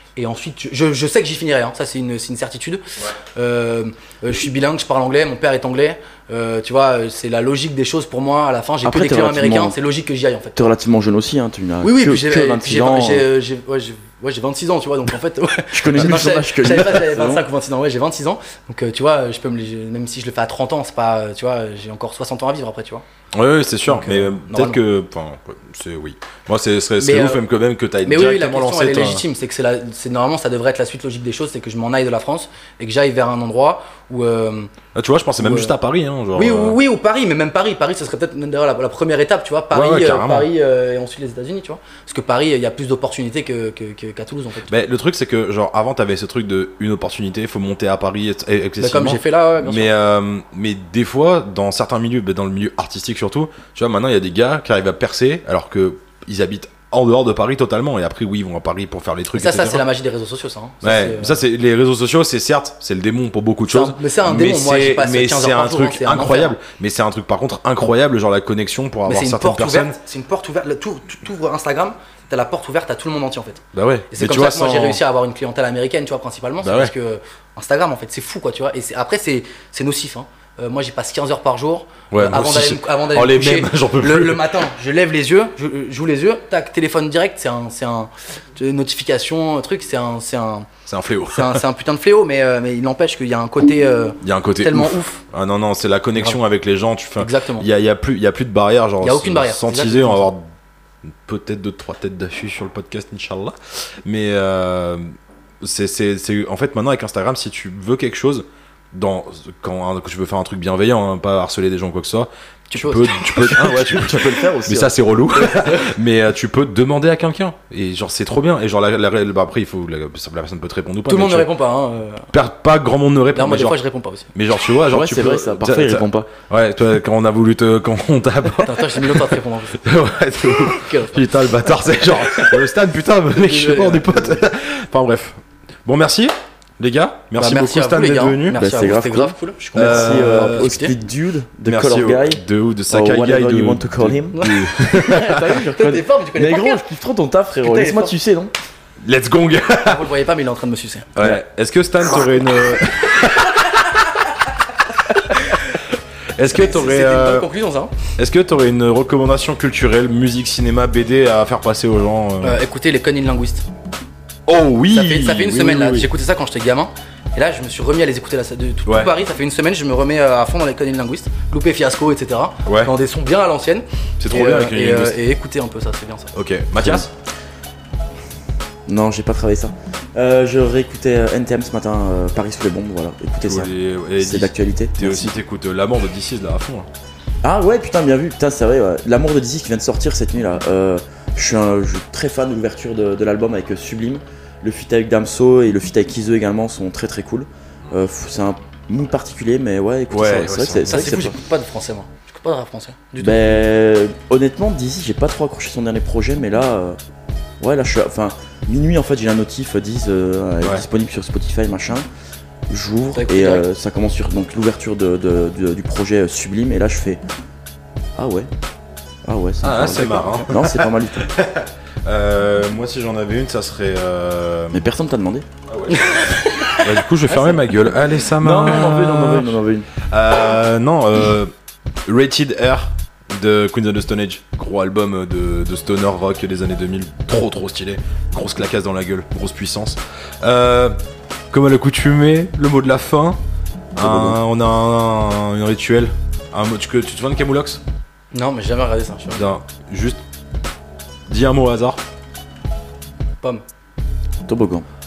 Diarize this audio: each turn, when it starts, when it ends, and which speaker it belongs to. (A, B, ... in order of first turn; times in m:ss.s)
0:00.2-0:10.6 A
0:08.8-0:09.7 B
0:10.5-0:13.3 B
0:11.8-0:23.0 A
0:15.7-0:17.4 B
0:23.3-0:29.2 C
0:23.8-0:24.8 A
0:27.0-0:27.4 A
0:28.0-0:34.7 A
0:34.9-0:36.8 C
0:35.4-0:35.7 A
0:36.3-0:44.7 A
0:39.7-0:40.5 C
0:44.7-0:59.8 C
0:48.8-0:49.9 A
0:59.3-1:01.4 A
1:00.8-1:10.0 C
1:03.7-1:06.6 A
1:09.1-1:30.7 A
1:13.7-1:15.0 C
1:16.6-1:16.9 C
1:22.1-1:24.6 C
1:30.9-1:31.6 C
1:31.3-1:35.2 A
1:34.2-1:40.4 C
1:37.2-1:37.7 A
1:39.0-1:40.3 A
1:41.2-2:01.5 C
1:52.7-1:53.5 A
1:53.3-1:54.9 B
1:55.3-1:55.9 A
2:01.1-2:02.3 A
2:02.3-2:03.8 C
2:03.3-2:04.3 A
2:04.3-2:18.6 C
2:04.9-2:06.3 B
2:08.6-2:09.8 A
2:10.7-2:11.2 A
2:13.4-2:14.4 A
2:17.4-2:20.9 A
2:18.5-2:24.5 B
2:19.8-2:20.7 C
2:21.6-2:25.6 C
2:24.3-2:26.8 A
2:25.0-2:28.5 B
2:27.6-2:28.1 A
2:29.0-2:30.1 C
2:29.8-2:31.1 A
2:31.2-2:34.0 C
2:35.1-2:35.8 C
2:35.3-2:35.8 A
2:36.4-2:37.5 C
2:36.4-2:37.9 A
2:38.2-2:42.6 C
2:42.4-2:43.7 A
2:44.5-2:46.1 C
2:44.9-2:56.3 A
2:48.8-2:49.1 C
2:52.6-2:52.9 C
2:54.2-2:55.2 C
2:56.3-2:57.1 C
2:56.8-2:57.1 B
2:58.9-3:05.3 B
3:03.4-3:06.9 C
3:07.4-3:21.3 B
3:20.1-3:21.1 C
3:20.9-3:23.7 A
3:23.2-3:27.0 B
3:27.6-3:32.0 B
3:32.7-3:37.2 B
3:33.1-3:33.6 A
3:38.2-3:38.5 B
3:39.2-3:41.3 B
3:39.6-3:44.8 C
3:44.7-3:45.4 B
3:45.7-3:49.6 C
3:45.9-3:46.9 A
3:47.3-3:47.7 B
3:48.4-3:49.9 B
3:50.1-3:51.5 C
3:52.1-4:01.0 C
4:01.5-4:03.4 C
4:04.0-4:07.8 C
4:04.0-4:04.4 B
4:08.3-4:09.5 A
4:09.3-4:10.2 C
4:11.3-4:12.0 C
4:14.5-4:14.8 B